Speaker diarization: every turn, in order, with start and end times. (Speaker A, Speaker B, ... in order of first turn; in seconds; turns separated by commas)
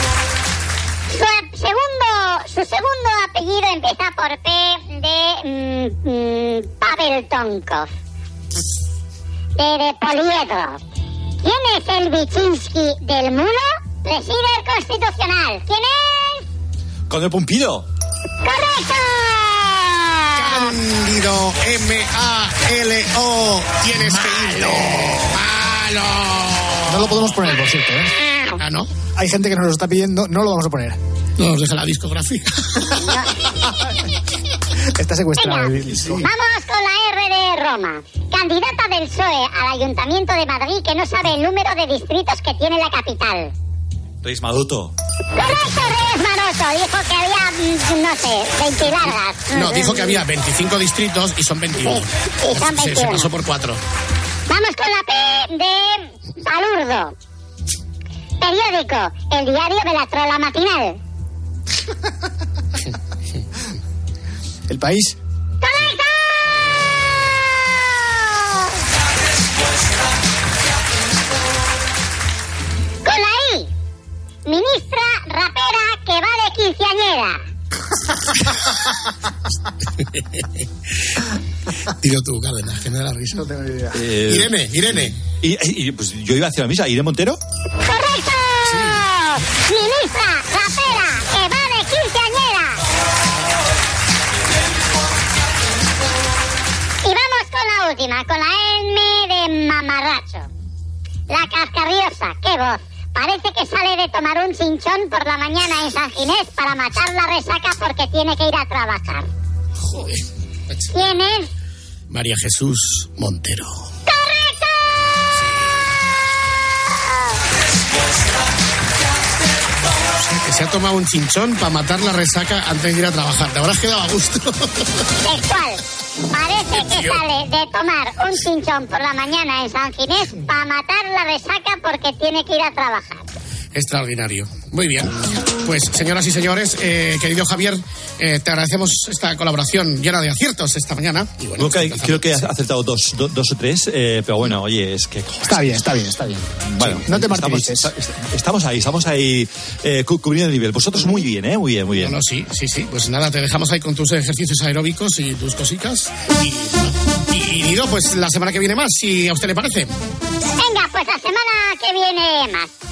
Speaker A: 1.1-7.9, Speaker A: 9.6-10.8, Speaker A: 11.4-16.4, Speaker B: 17.1-17.9, Speaker A: 18.4-20.8, Speaker C: 20.4-27.1, Speaker D: 26.9-28.1, Speaker A: 28.3-28.6, Speaker C: 28.6-28.9, Speaker D: 29.2-31.0, Speaker C: 31.4-32.8, Speaker D: 35.0-36.3, Speaker A: 35.4-43.5, Speaker B: 44.2-44.9, Speaker A: 45.4-50.2, Speaker C: 49.5-53.8, Speaker A: 52.5-53.3, Speaker A: 54.5-57.1, Speaker A: 58.4-61.0, Speaker D: 64.7-65.2, Speaker A: 65.6-66.5, Speaker A: 67.9-68.7, Speaker A: 73.0-73.7, Speaker A: 74.5-77.4, Speaker C: 80.1-80.4, Speaker C: 82.0-83.5, Speaker D: 83.4-83.9, Speaker B: 84.0-84.5, Speaker C: 84.3-85.2, Speaker B: 85.4-87.4, Speaker A: 87.9-92.8, Speaker C: 88.7-89.0, Speaker A: 97.0-100.5, Speaker A: 101.3-109.3, Speaker C: 109.8-110.9, Speaker A: 110.9-111.5, Speaker C: 112.1-113.8, Speaker A: 114.1-114.8, Speaker A: 117.1-117.4, Speaker C: 120.2-124.8, Speaker A: 125.2-125.8, Speaker A: 126.3-133.2, Speaker C: 126.8-127.2, Speaker C: 133.7-142.5, Speaker B: 141.6-145.8, Speaker D: 145.4-147.9, Speaker B: 146.7-152.2, Speaker C: 152.0-159.9, Speaker A: 160.6-162.7